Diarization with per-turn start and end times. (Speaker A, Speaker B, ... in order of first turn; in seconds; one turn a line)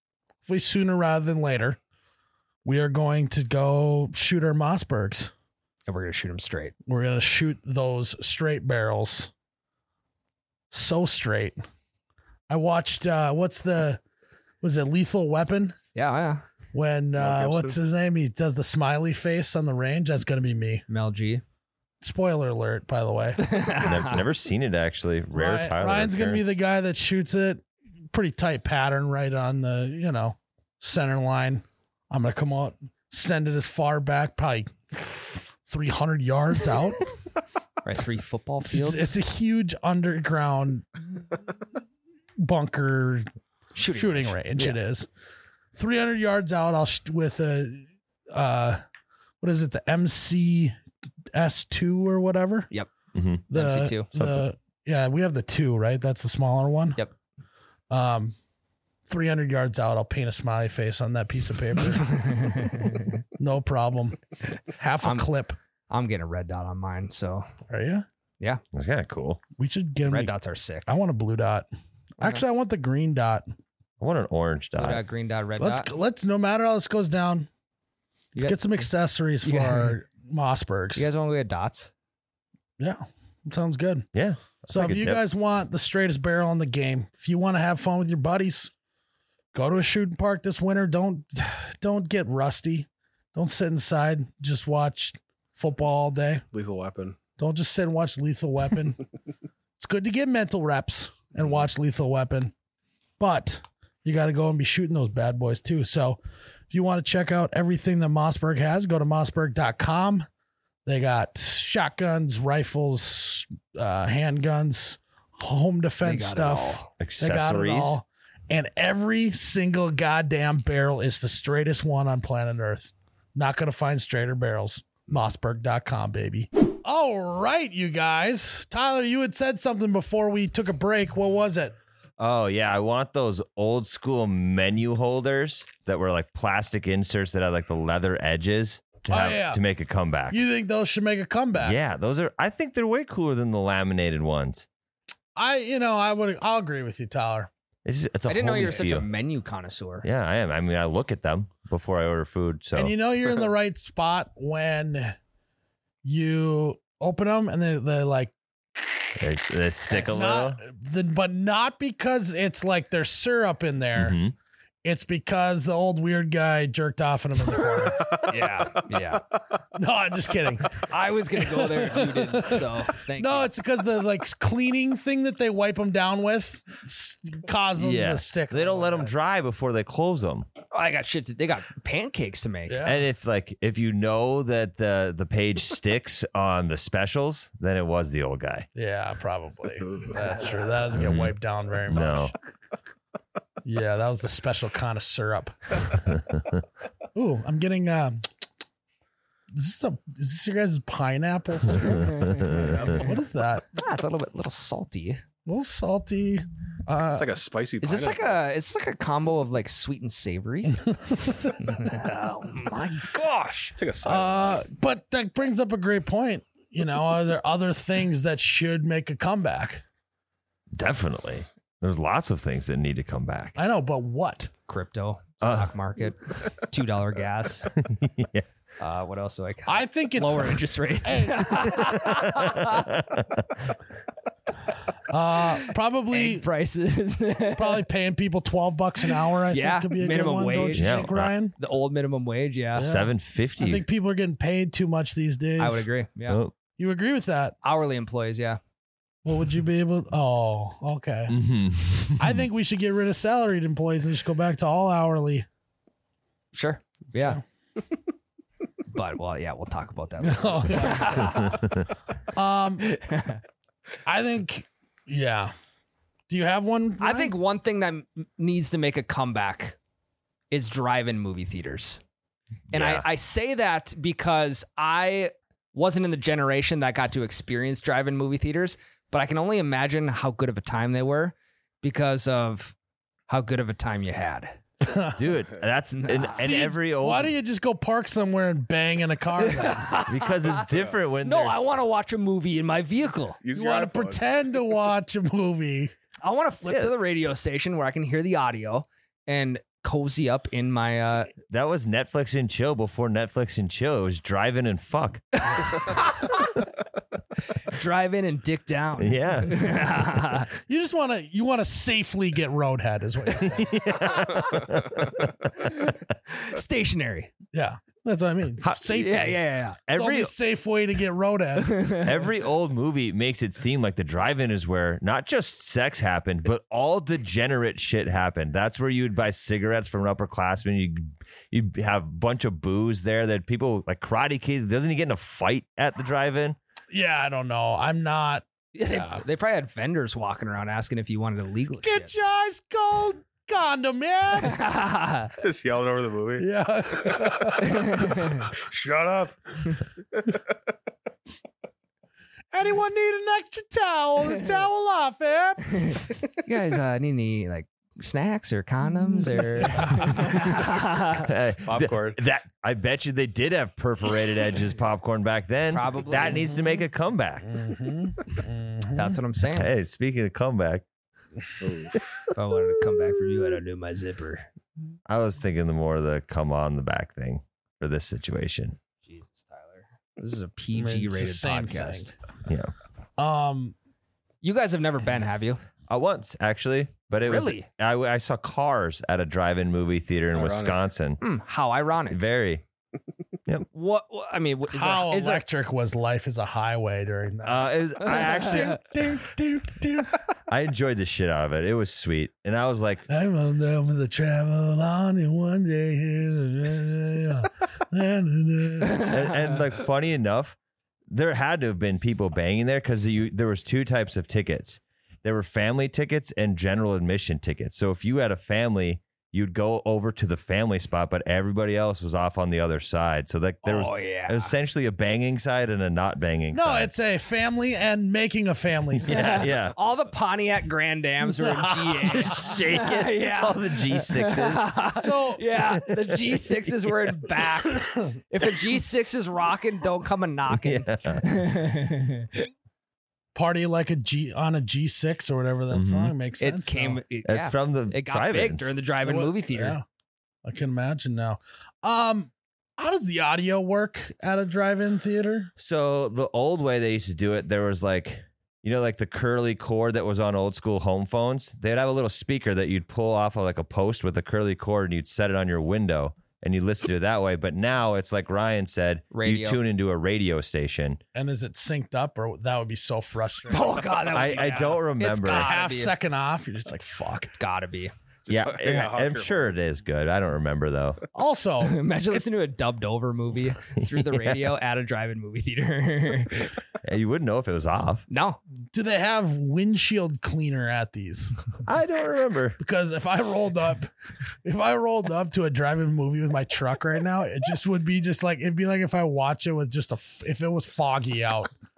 Speaker A: 0.4-1.8
Speaker A: 2.6-5.3
Speaker B: 5.9-6.7
Speaker A: 6.8-9.3
Speaker A: 10.7-11.6
Speaker A: 12.5-14.0
Speaker A: 14.6-15.8
Speaker B: 15.9-16.4
Speaker A: 16.7-20.8
Speaker C: 17.2-17.8
Speaker B: 20.9-21.4
Speaker A: 22.0-23.4
Speaker B: 23.4-24.2
Speaker D: 23.7-26.6
Speaker A: 25.3-37.0
Speaker B: 37.8-39.2
Speaker A: 38.6-40.9
Speaker A: 42.4-43.3
Speaker B: 43.7-44.8
Speaker A: 43.9-45.1
Speaker A: 45.7-48.8
Speaker A: 49.4-50.8
Speaker A: 51.3-52.7
Speaker D: 53.1-53.4
Speaker A: 53.5-57.0
Speaker B: 53.5-54.1
Speaker A: 57.9-58.4
Speaker A: 59.1-62.2
Speaker B: 62.1-63.1
Speaker A: 63.4-64.2
Speaker A: 64.7-65.5
Speaker B: 65.0-65.3
Speaker B: 65.9-67.5
Speaker A: 67.7-68.0
Speaker D: 68.7-69.4
Speaker A: 69.6-70.3
Speaker B: 70.1-70.9
Speaker A: 70.8-71.7
Speaker A: 72.2-73.5
Speaker D: 74.0-75.0
Speaker B: 74.8-75.9
Speaker A: 75.6-77.5
Speaker B: 78.3-78.8
Speaker A: 78.4-81.1
Speaker B: 79.4-79.9
Speaker B: 81.0-81.9
Speaker A: 82.8-84.1
Speaker D: 84.1-85.2
Speaker A: 84.7-88.7
Speaker A: 89.5-96.4
Speaker C: 96.5-97.2
Speaker A: 97.4-99.0
Speaker A: 99.8-102.5
Speaker A: 103.2-106.2
Speaker A: 106.7-110.3
Speaker A: 110.8-131.8
Speaker B: 116.0-116.9
Speaker D: 117.0-118.0
Speaker D: 132.2-140.4
Speaker A: 139.1-139.6
Speaker A: 140.3-141.8
Speaker D: 141.6-144.7
Speaker A: 145.3-147.5
Speaker D: 147.8-149.1
Speaker B: 148.3-150.0
Speaker D: 150.0-152.9
Speaker A: 152.7-155.2
Speaker A: 156.0-159.1
Speaker D: 159.2-160.6
Speaker A: 160.0-164.2
Speaker D: 163.9-164.3
Speaker A: 164.8-168.3
Speaker B: 168.1-169.2
Speaker A: 169.7-170.8
Speaker B: 170.8-173.5
Speaker A: 171.5-179.1
Speaker D: 177.8-180.5
Speaker B: 180.7-182.8
Speaker A: 182.7-183.0
Speaker D: 182.8-188.7
Speaker A: 188.7-192.3
Speaker D: 190.9-191.3
Speaker D: 191.9-192.3
Speaker A: 193.6-195.8
Speaker D: 196.3-196.6
Speaker A: 197.1-198.2
Speaker A: 199.5-203.7
Speaker B: 201.9-203.1
Speaker D: 202.4-202.7
Speaker B: 203.7-205.2
Speaker A: 205.4-207.3
Speaker C: 207.1-208.4
Speaker B: 207.8-210.8
Speaker B: 211.5-213.8
Speaker C: 213.7-214.6
Speaker A: 214.0-219.8
Speaker D: 220.7-223.6
Speaker A: 223.6-224.5
Speaker B: 224.7-227.7
Speaker D: 225.4-225.7
Speaker D: 227.8-228.4
Speaker B: 228.8-232.9
Speaker A: 229.7-231.8
Speaker D: 231.8-233.7
Speaker A: 235.1-236.4
Speaker B: 236.1-237.8
Speaker A: 237.5-241.5
Speaker B: 239.5-242.9
Speaker D: 240.8-241.3
Speaker A: 242.7-245.9
Speaker D: 242.8-243.8
Speaker B: 245.6-246.4
Speaker D: 246.3-246.5
Speaker A: 246.8-247.5
Speaker B: 247.6-248.6
Speaker A: 249.2-251.4
Speaker D: 251.3-252.4
Speaker A: 252.2-255.4
Speaker B: 256.5-257.4
Speaker B: 258.9-261.6
Speaker A: 260.2-261.6
Speaker A: 262.3-262.9
Speaker B: 262.8-263.4
Speaker A: 264.0-265.5
Speaker A: 266.3-267.3
Speaker B: 267.0-269.8
Speaker B: 270.5-272.0
Speaker D: 272.7-273.1
Speaker B: 272.7-282.7
Speaker B: 283.3-284.6
Speaker A: 284.8-285.2
Speaker D: 285.2-287.3
Speaker B: 285.9-286.5
Speaker A: 286.4-289.9
Speaker B: 289.4-290.6
Speaker D: 290.1-291.6
Speaker B: 291.2-293.4
Speaker C: 293.4-294.2
Speaker A: 293.5-295.9
Speaker B: 296.2-301.3
Speaker D: 301.5-305.4
Speaker B: 305.4-306.6
Speaker B: 307.6-310.5
Speaker D: 309.0-309.8
Speaker A: 310.6-313.8
Speaker D: 313.4-315.6
Speaker B: 314.2-314.6
Speaker B: 315.6-317.3
Speaker A: 317.5-321.9
Speaker D: 318.6-319.0
Speaker B: 318.9-319.8
Speaker D: 319.9-320.3
Speaker B: 321.6-322.1
Speaker D: 322.0-336.6
Speaker A: 336.9-339.2
Speaker B: 338.7-342.1
Speaker A: 341.8-344.6
Speaker B: 344.3-345.3
Speaker C: 345.4-346.4
Speaker A: 346.4-348.3
Speaker B: 347.7-348.4
Speaker C: 348.5-349.3
Speaker A: 352.5-356.0
Speaker B: 355.8-361.3
Speaker A: 359.7-360.0
Speaker D: 361.2-367.6
Speaker C: 361.6-362.2
Speaker B: 365.7-366.5
Speaker A: 367.4-369.1
Speaker B: 368.9-369.7
Speaker D: 369.5-370.8
Speaker C: 371.6-372.1
Speaker B: 372.3-374.4
Speaker D: 375.1-378.8
Speaker B: 379.0-382.1
Speaker A: 380.7-382.1
Speaker D: 382.5-382.7
Speaker A: 383.2-383.7
Speaker B: 384.4-385.6
Speaker D: 385.9-391.2
Speaker B: 387.2-387.6
Speaker C: 390.3-390.8
Speaker B: 391.2-392.2
Speaker D: 392.1-392.6
Speaker B: 393.7-395.4
Speaker A: 394.7-400.1
Speaker D: 397.4-398.8
Speaker B: 398.1-398.7
Speaker D: 400.5-403.1
Speaker A: 403.1-409.1
Speaker B: 408.9-409.2
Speaker D: 408.9-410.6
Speaker D: 411.1-426.9
Speaker B: 423.6-424.5
Speaker A: 426.5-429.2
Speaker D: 429.1-429.7
Speaker B: 429.1-442.5
Speaker A: 431.3-432.3
Speaker D: 432.0-434.7
Speaker A: 434.9-435.4
Speaker D: 435.8-436.4
Speaker D: 440.5-441.3
Speaker A: 443.3-447.0
Speaker D: 445.7-446.1
Speaker B: 446.4-449.8
Speaker D: 447.2-448.7
Speaker A: 449.0-449.8
Speaker A: 450.4-455.5
Speaker D: 455.6-471.0
Speaker B: 469.1-469.6
Speaker A: 471.1-474.0
Speaker B: 473.5-475.9
Speaker D: 474.1-475.5
Speaker A: 475.2-477.3
Speaker B: 477.4-477.9
Speaker C: 478.2-479.5
Speaker D: 478.3-481.0
Speaker A: 481.1-481.8
Speaker B: 481.6-486.5
Speaker D: 483.8-484.4
Speaker D: 486.8-488.0
Speaker B: 488.1-488.4
Speaker A: 488.7-491.3
Speaker D: 491.6-492.6
Speaker A: 492.6-493.9
Speaker A: 494.4-501.5